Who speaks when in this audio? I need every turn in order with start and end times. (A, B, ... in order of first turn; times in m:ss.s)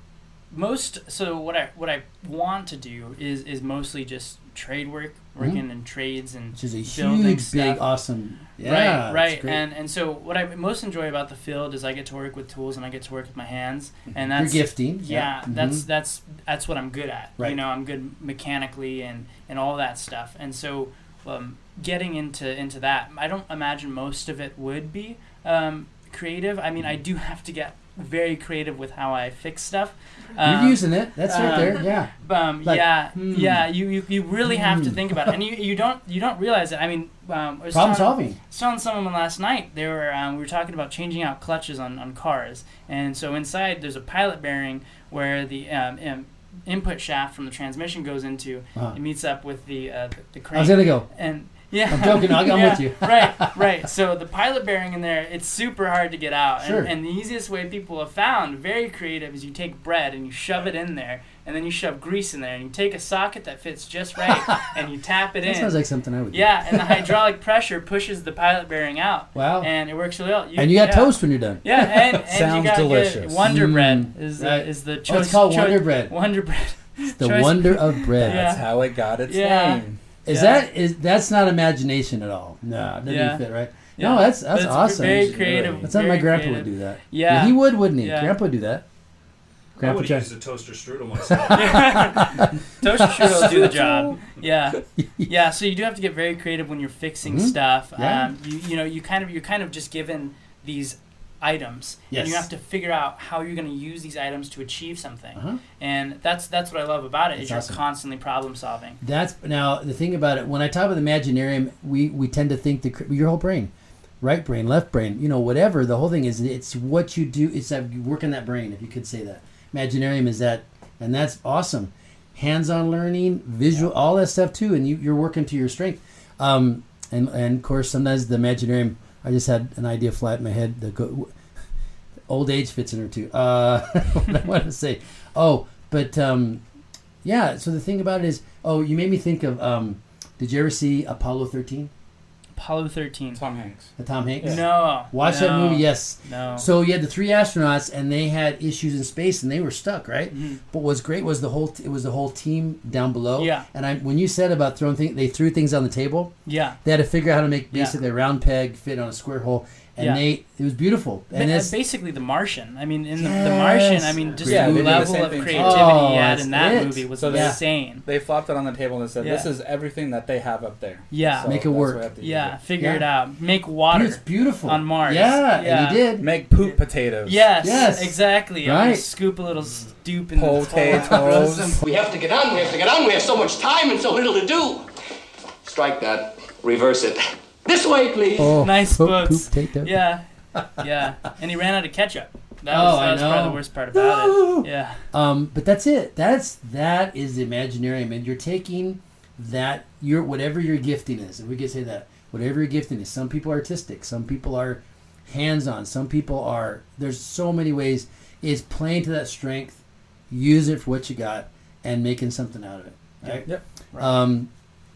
0:00.5-0:07.8 A
0:06.5-0:09.6 B
0:08.6-1:05.7 A
0:14.3-0:15.8 B
0:30.4-0:32.1 B
0:32.6-0:33.7 B
0:34.4-0:35.2 B
0:37.7-0:38.4 B
0:50.5-0:51.1 B
0:51.9-0:53.6 B
0:56.6-0:56.9 B
1:05.4-1:07.1 B
1:06.3-1:18.7 A
1:09.3-1:09.7 B
1:10.5-1:12.2 B
1:12.2-1:13.4 C
1:13.4-1:16.1 B
1:17.0-1:18.5 B
1:18.2-1:20.0 C
1:19.2-1:20.7 A
1:20.2-1:28.8 B
1:23.0-1:23.4 A
1:24.0-1:28.4 A
1:25.0-1:25.9 C
1:29.8-1:32.0 D
1:29.8-1:30.3 B
1:31.5-1:49.0 A
1:31.5-1:34.2 B
1:35.0-1:35.3 B
1:37.2-1:38.3 B
1:42.1-1:42.5 B
1:47.4-1:47.8 B
1:49.0-2:11.3 B
2:12.3-2:16.6 B
2:17.2-2:21.9 B
2:22.5-2:23.4 A
2:23.3-2:24.6 C
2:24.0-2:36.3 B
2:24.4-2:26.7 A
2:30.3-2:30.6 A
2:33.4-2:33.6 A
2:36.4-2:36.8 A
2:36.8-2:41.7 B
2:37.7-2:38.0 A
2:40.0-2:40.2 A
2:41.3-2:48.0 A
2:43.2-2:47.6 B
2:44.4-2:46.0 C
2:47.2-2:52.6 C
2:49.2-2:49.5 A
2:51.1-2:51.5 A
2:51.4-2:52.0 B
2:52.2-2:56.0 A
2:52.8-2:53.0 B
2:53.9-2:56.3 B
2:56.2-2:57.5 C
2:56.6-3:01.8 A
2:57.6-2:59.0 B
3:00.3-3:01.8 C
3:01.8-3:04.9 E
3:05.6-3:08.6 E
3:08.4-3:10.0 B
3:08.5-3:15.0 A
3:12.7-3:33.5 B
3:33.2-3:34.2 A
3:34.0-3:34.5 B